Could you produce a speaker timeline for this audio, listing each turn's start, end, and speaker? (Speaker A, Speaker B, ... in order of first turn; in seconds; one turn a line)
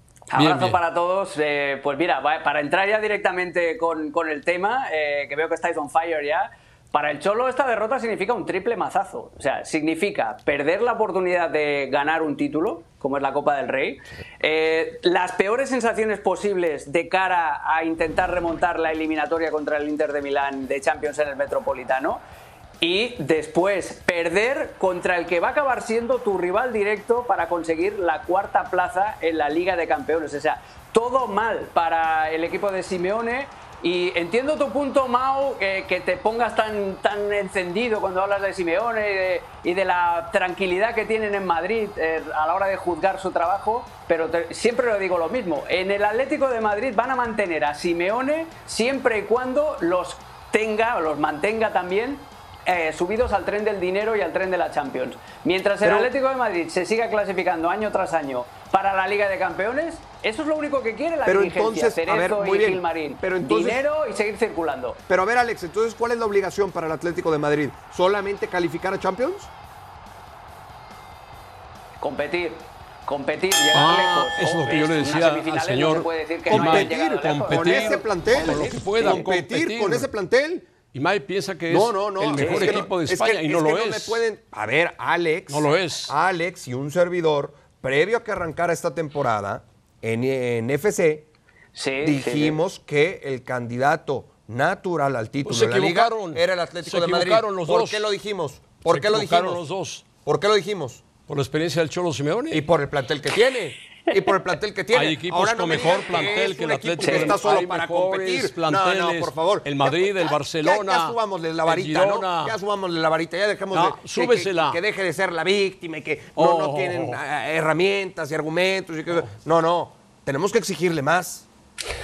Speaker A: 0.3-22.2
Speaker B: 0.3-0.8
Speaker A: 22.8-65.0
Speaker C: 55.8-56.1
Speaker C: 61.2-63.8
Speaker C: 65.1-69.5
Speaker A: 72.0-79.1
Speaker B: 73.7-80.1
Speaker C: 76.5-80.7
Speaker B: 80.9-84.2
Speaker C: 81.7-91.3
Speaker A: 82.4-82.8
Speaker B: 85.5-86.1
Speaker A: 91.8-92.6
Speaker C: 92.0-99.6
Speaker B: 95.4-98.1
Speaker B: 98.9-100.1
Speaker C: 100.2-101.0
Speaker B: 101.3-102.7
Speaker C: 102.5-121.5
Speaker B: 104.9-112.6
Speaker A: 107.0-107.4
Speaker B: 113.7-114.8
Speaker B: 116.4-117.2